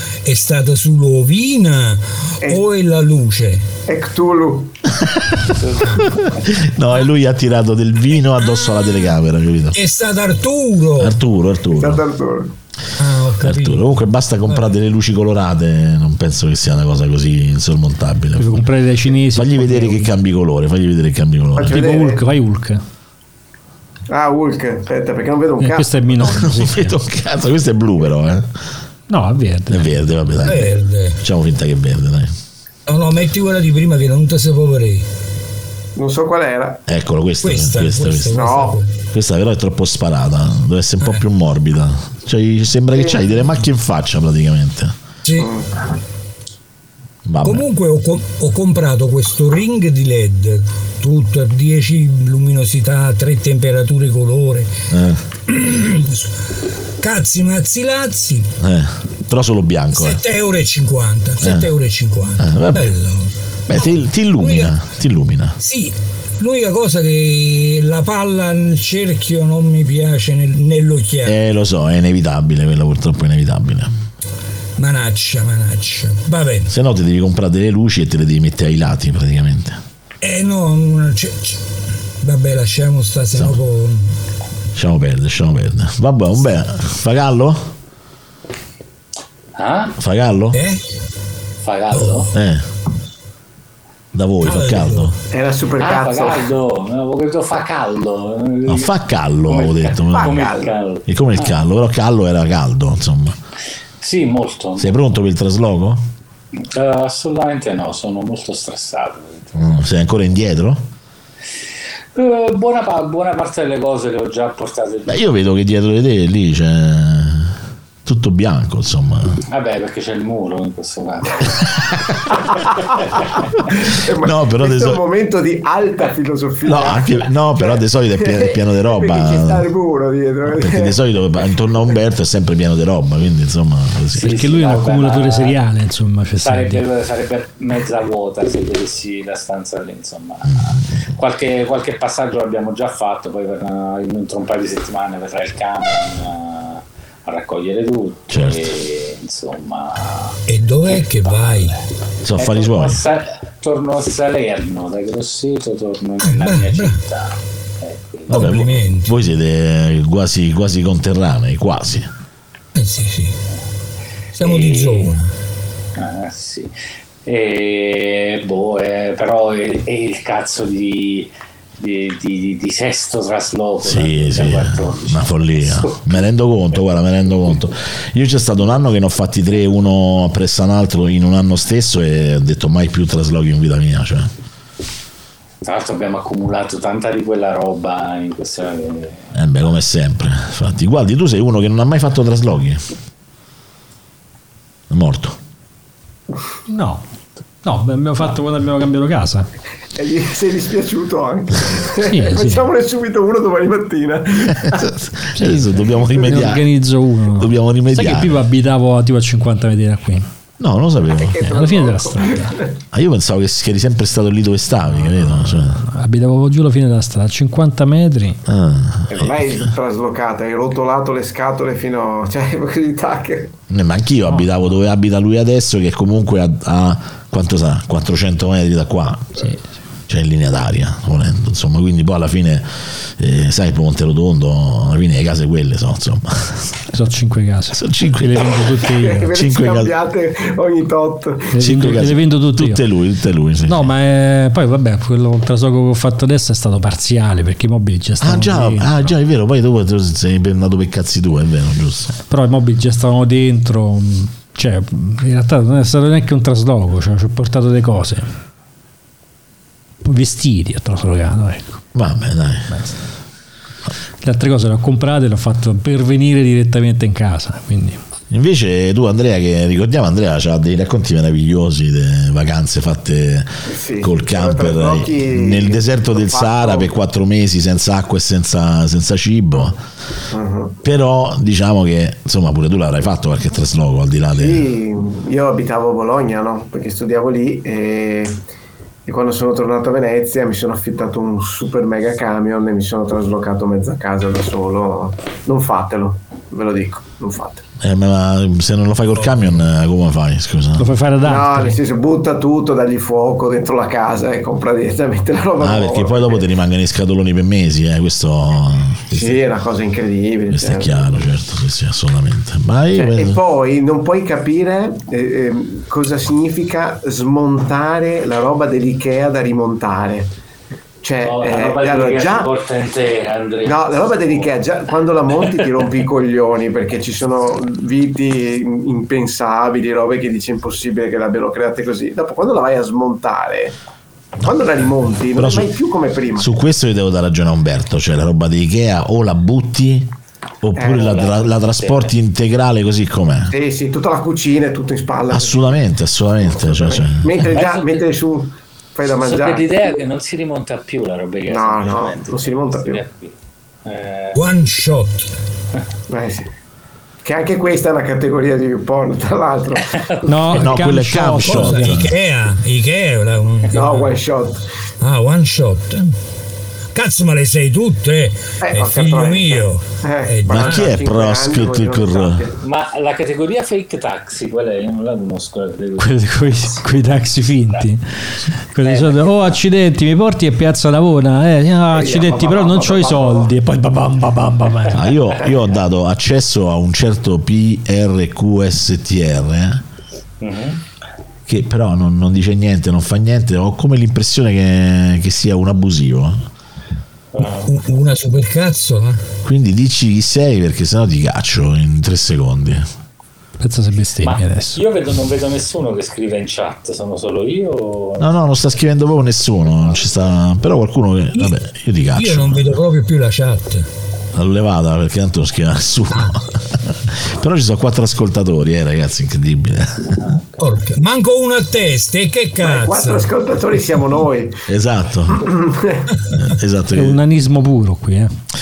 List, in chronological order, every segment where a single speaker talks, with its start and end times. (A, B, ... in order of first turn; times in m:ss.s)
0:00.2-0:03.7 A
0:03.8-0:04.8 B
0:05.0-0:05.5 C
0:05.6-0:06.0 D
0:05.8-0:06.1 A
0:06.2-0:09.8 C
0:08.4-0:09.1 A
0:09.7-0:11.2 A
0:11.0-0:12.0 C
0:11.7-0:12.5 B
0:13.0-0:13.9 A
0:13.4-0:18.6 C
0:14.5-0:14.7 A
0:18.4-0:20.1 E
0:19.3-0:21.8 C
0:21.6-0:22.2 B
0:21.7-0:22.8 E
0:24.1-0:25.9 B
0:25.6-0:27.0 E
0:26.2-0:28.5 C
0:29.1-0:29.9 E
0:29.7-0:32.3 C
0:30.4-0:31.2 A
0:32.9-0:35.1 A
0:36.0-0:36.8 B
0:36.9-0:38.4 C
0:37.4-0:38.9 A
0:38.3-0:38.8 B
0:39.1-0:44.9 C
0:42.9-0:43.3 B
0:45.2-0:45.5 A
0:45.4-0:45.7 B
0:47.2-0:47.6 C
0:47.4-0:54.7 A
0:54.9-0:55.2 C
0:55.5-0:56.4 A
0:57.0-0:58.5 A
0:58.6-1:00.2 C
0:59.9-1:04.7 A
1:01.4-1:01.7 C
1:02.4-1:02.9 C
1:03.7-1:05.6 C
1:05.6-1:11.4 A
1:11.2-1:13.9 C
1:14.8-1:16.7 A
1:16.7-1:19.8 C
1:20.2-1:21.6 A
1:22.2-1:24.2 A
1:23.3-1:23.6 C
1:24.7-1:27.6 C
1:29.5-1:29.9 D
1:30.0-1:30.6 C
1:30.5-1:30.8 A
1:31.6-1:32.3 D
1:31.9-1:32.3 A
1:32.3-1:32.6 C
1:34.1-1:35.1 C
1:34.4-1:35.1 A
1:35.3-1:36.5 B
1:35.8-1:38.9 D
1:38.6-1:40.4 C
1:39.5-1:41.5 D
1:40.1-1:40.8 B
1:41.1-1:43.4 C
1:44.0-1:44.9 D
1:44.8-1:46.0 C
1:46.6-1:49.7 D
1:49.6-1:50.8 C
1:52.1-1:55.2 D
1:55.1-1:59.4 C
1:59.5-2:01.6 D
2:03.8-2:11.0 B
2:04.2-2:05.0 C
2:06.6-2:09.7 C
2:10.5-2:14.3 C
2:14.2-2:16.8 E
2:14.2-2:15.6 D
2:16.4-2:20.6 D
2:21.1-2:30.4 D
2:28.3-2:28.6 C
2:30.5-2:31.8 A
2:31.3-2:31.8 D
2:32.2-2:33.0 C
2:32.4-2:38.6 D
2:36.2-2:37.0 A
2:38.3-2:42.1 C
2:38.3-2:39.2 A
2:42.7-2:43.4 A
2:44.4-2:45.3 A
2:44.4-2:45.1 D
2:46.0-2:46.7 D
2:47.2-2:56.1 D
2:53.8-3:04.3 C
3:05.6-3:09.3 D
3:09.3-3:12.8 C
3:14.9-3:15.4 C
3:16.7-3:17.0 E
3:17.6-3:19.5 E
3:20.0-3:24.9 B
3:22.0-3:22.6 E
3:24.6-3:26.7 C
3:25.3-3:30.3 E
3:27.3-3:28.4 C
3:30.6-3:31.4 C
3:31.2-3:32.7 B
3:31.4-3:32.6 E
3:32.9-3:35.8 C
3:35.6-3:38.4 E
3:38.4-3:39.5 C
3:39.1-3:43.5 B
3:43.7-3:49.5 C
3:50.1-3:56.8 C
3:56.9-3:59.3 E
3:57.7-3:58.7 C
3:58.9-4:01.6 B
3:59.3-3:59.9 C
4:01.5-4:02.8 E
4:01.6-4:03.9 C
4:03.6-4:09.1 E
4:08.2-4:12.1 C
4:12.3-4:18.3 E
4:20.0-4:21.8 E
4:21.9-4:22.8 C
4:24.2-4:28.0 E
4:28.3-4:39.8 C
4:33.7-4:36.9 B
4:40.3-4:40.8 B
4:40.8-4:44.7 C
4:44.3-4:48.4 B
4:49.0-4:57.6 B
4:57.8-5:00.9 C
5:00.8-5:01.8 E
5:01.2-5:06.4 B
5:05.6-5:09.4 C
5:09.1-5:10.9 B
5:10.5-5:13.4 C
5:12.9-5:20.3 B
5:21.0-5:22.5 B
5:21.2-5:24.5 D
5:23.6-5:33.8 B
5:34.4-5:36.5 B
5:35.3-5:35.7 C
5:36.4-5:43.5 C
5:40.8-5:41.2 B
5:40.9-5:42.1 D
5:43.5-5:45.8 B
5:45.3-5:47.4 C
5:46.5-5:49.8 B
5:47.4-5:48.0 D
5:49.1-5:53.3 D
5:51.5-5:53.0 B
5:53.8-5:54.4 D
5:54.3-5:55.3 A
5:56.1-5:56.5 B
5:57.2-6:00.0 B
5:59.9-6:00.2 D
6:00.2-6:02.0 E
6:00.5-6:02.1 C
6:01.4-6:04.2 A
6:03.7-6:04.6 B
6:05.0-6:06.1 A
6:06.9-6:10.9 A
6:08.6-6:12.5 B
6:10.5-6:12.4 C
6:12.6-6:16.8 D
6:16.0-6:25.0 E
6:18.8-6:19.6 D
6:21.9-6:23.5 B
6:24.9-6:29.8 C
6:30.4-6:30.8 D
6:31.5-6:36.4 C
6:37.3-6:37.7 D
6:37.6-6:39.2 A
6:39.4-6:42.9 C
6:43.6-6:44.8 E
6:44.2-6:48.3 D
6:48.2-6:52.7 C
6:52.1-6:53.9 A
6:54.3-7:00.3 C
7:00.6-7:03.3 A
7:02.6-7:04.6 B
7:04.7-7:05.5 C
7:05.3-7:06.0 B
7:06.3-7:07.2 C
7:06.9-7:08.3 E